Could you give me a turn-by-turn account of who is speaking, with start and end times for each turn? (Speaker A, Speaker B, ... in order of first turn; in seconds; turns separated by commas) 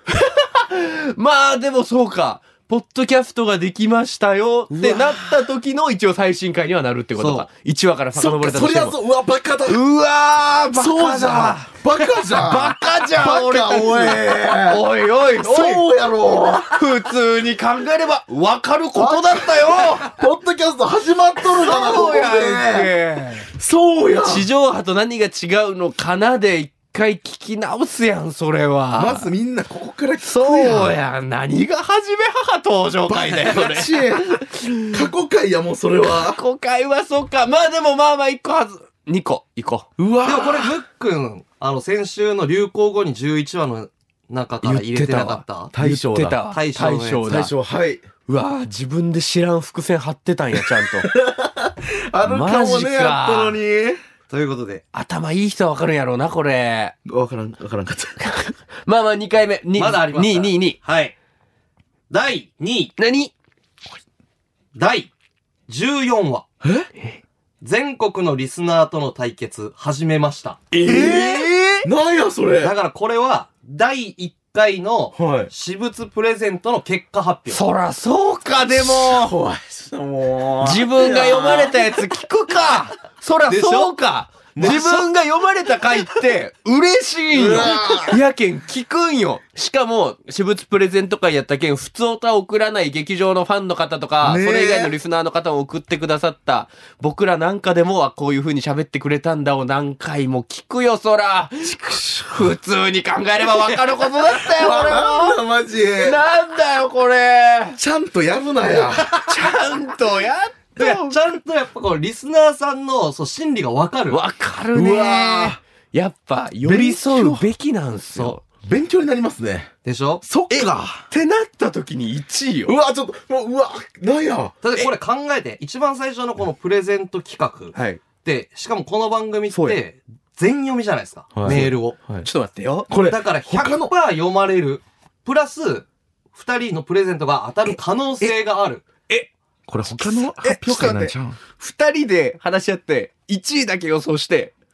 Speaker A: 0.1-9.0, Speaker B: 4.7-5.4, Speaker C: 7.2-7.5, Speaker B: 8.1-9.8, Speaker A: 9.7-15.9, Speaker B: 10.7-17.1, Speaker A: 16.7-20.2, Speaker B: 18.9-22.9, Speaker A: 21.5-23.5, Speaker B: 23.5-24.5, Speaker A: 24.2-29.3, Speaker B: 29.0-31.0, Speaker A: 30.2-35.0, Speaker B: 33.1-36.4, Speaker A: 36.0-39.9, Speaker B: 40.0-40.8, Speaker C: 40.2-45.7, Speaker A: 44.6-47.5, Speaker B: 45.7-46.4, Speaker C: 46.5-47.4, Speaker B: 47.2-48.1, Speaker A: 48.3-51.1, Speaker B: 50.6-54.0, Speaker A: 52.2-53.6, Speaker C: 54.3-54.8, Speaker A: 54.9-56.9, Speaker B: 57.1-58.2, Speaker A: 58.2-60.8, Speaker C: 59.8-61.1, Speaker C: 62.1-62.9, Speaker A: 63.0-63.3, Speaker C: 64.8-65.1, Speaker C: 65.7-66.4, Speaker B: 66.6-66.9, Speaker C: 67.6-70.7, Speaker A: 70.7-71.9, Speaker B: 70.8-72.7, Speaker C: 72.6-77.6, Speaker B: 75.2-75.5, Speaker A: 77.5-79.3, Speaker B: 78.7-81.8, Speaker A: 80.6-105.4, Speaker C: 83.5-83.9, Speaker B: 84.5-85.1, Speaker B: 87.3-88.2, Speaker B: 94.2-95.0, Speaker B: 101.6-102.5, Speaker B: 103.8-106.2, Speaker A: 106.0-107.8, Speaker B: 107.8-109.2, Speaker A: 108.9-111.2, Speaker C: 110.8-114.2, Speaker A: 114.1-118.4, Speaker B: 114.7-115.6, Speaker B: 116.6-117.5, Speaker B: 118.4-119.7, Speaker C: 119.8-120.2, Speaker B: 120.2-121.1, Speaker A: 120.5-122.7, Speaker B: 122.7-124.6, Speaker C: 124.6-132.0, Speaker A: 127.7-128.0, Speaker A: 129.5-129.8, Speaker B: 131.3-132.3, Speaker A: 131.5-131.7, Speaker A: 132.2-132.9, Speaker B: 132.9-133.9, Speaker C: 133.1-138.8, Speaker B: 139.7-141.4, Speaker A: 139.9-144.5